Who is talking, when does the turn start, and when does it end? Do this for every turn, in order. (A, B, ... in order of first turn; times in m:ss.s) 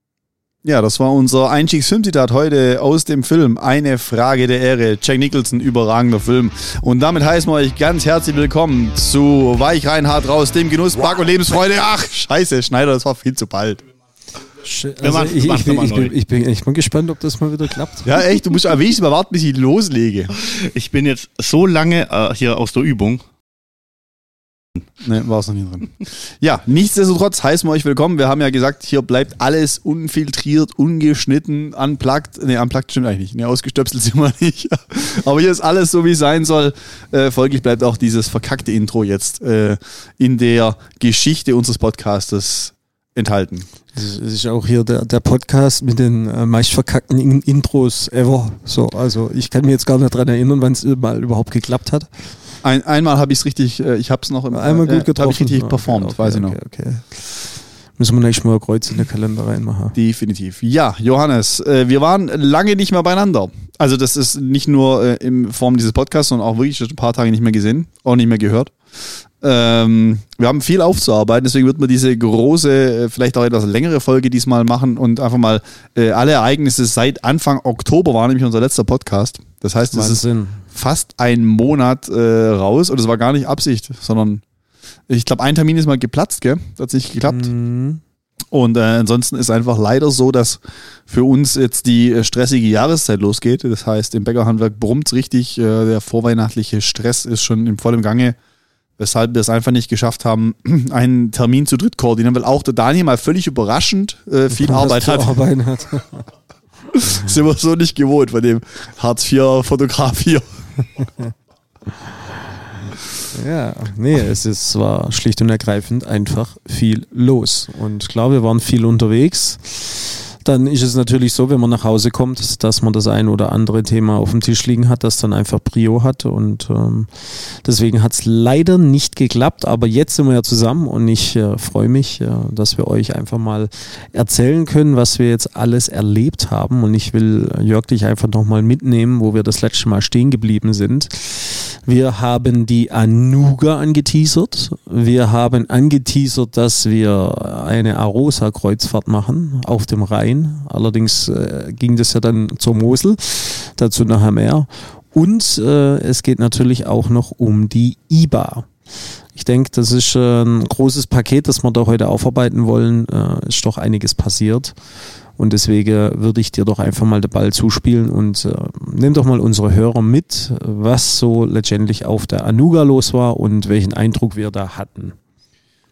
0:00.6-0:13.8 A
0:14.6-0:18.2 B
0:15.0-0:16.1 C
0:18.0-0:20.3 A
0:20.4-0:23.2 C
0:25.0-0:43.7 A
0:43.9-0:52.3 B
0:52.6-0:56.6 A
0:54.5-0:57.3 B
0:58.0-1:00.0 B
1:00.0-1:24.4 A
1:19.9-1:20.6 B
1:25.1-1:27.5 A
1:27.3-1:28.0 B
1:28.5-1:38.4 A
1:39.0-1:45.4 A
1:44.5-1:46.3 B
1:46.9-1:51.1 A
1:53.3-2:38.8 B
2:39.3-2:44.8 B
2:45.4-2:55.2 B